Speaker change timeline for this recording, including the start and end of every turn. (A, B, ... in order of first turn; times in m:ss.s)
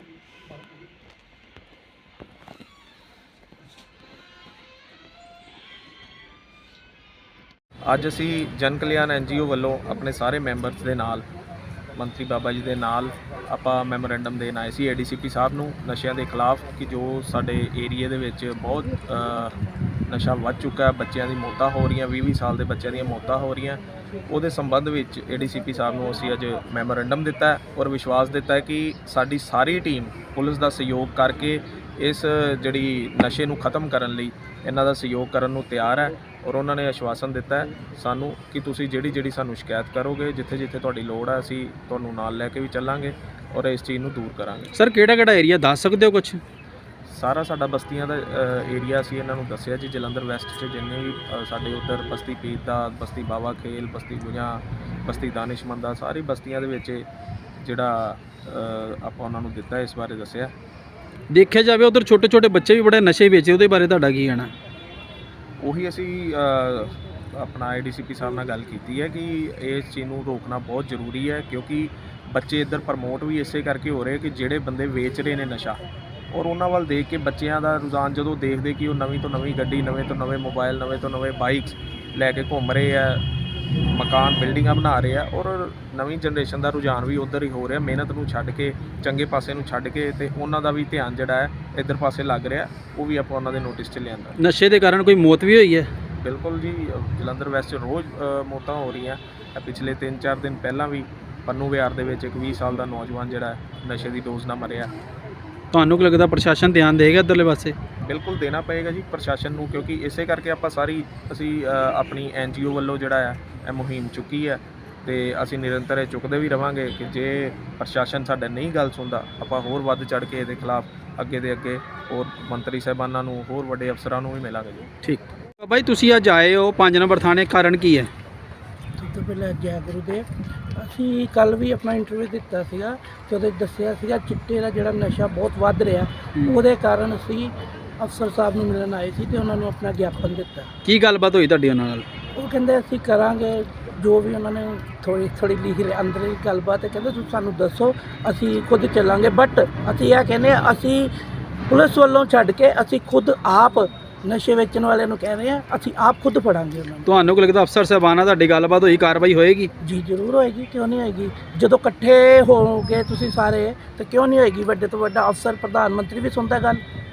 0:07.9-0:11.3 A
0:12.0-0:44.8 A
0:44.8-0:46.4 B
0:47.1-0:57.1 A
0:57.6-1:00.5 A
1:01.3-1:04.5 B
1:05.6-1:23.2 A
1:23.9-1:34.4 A
1:34.4-1:35.9 B
1:36.2-1:44.9 A
1:45.7-1:47.8 B
1:48.0-2:04.9 A
2:05.0-2:08.1 B
2:09.0-2:20.7 C
2:20.8-2:22.1 B
2:22.4-2:31.1 C
2:31.7-2:37.1 C
2:37.1-2:39.7 B
2:39.8-2:46.8 C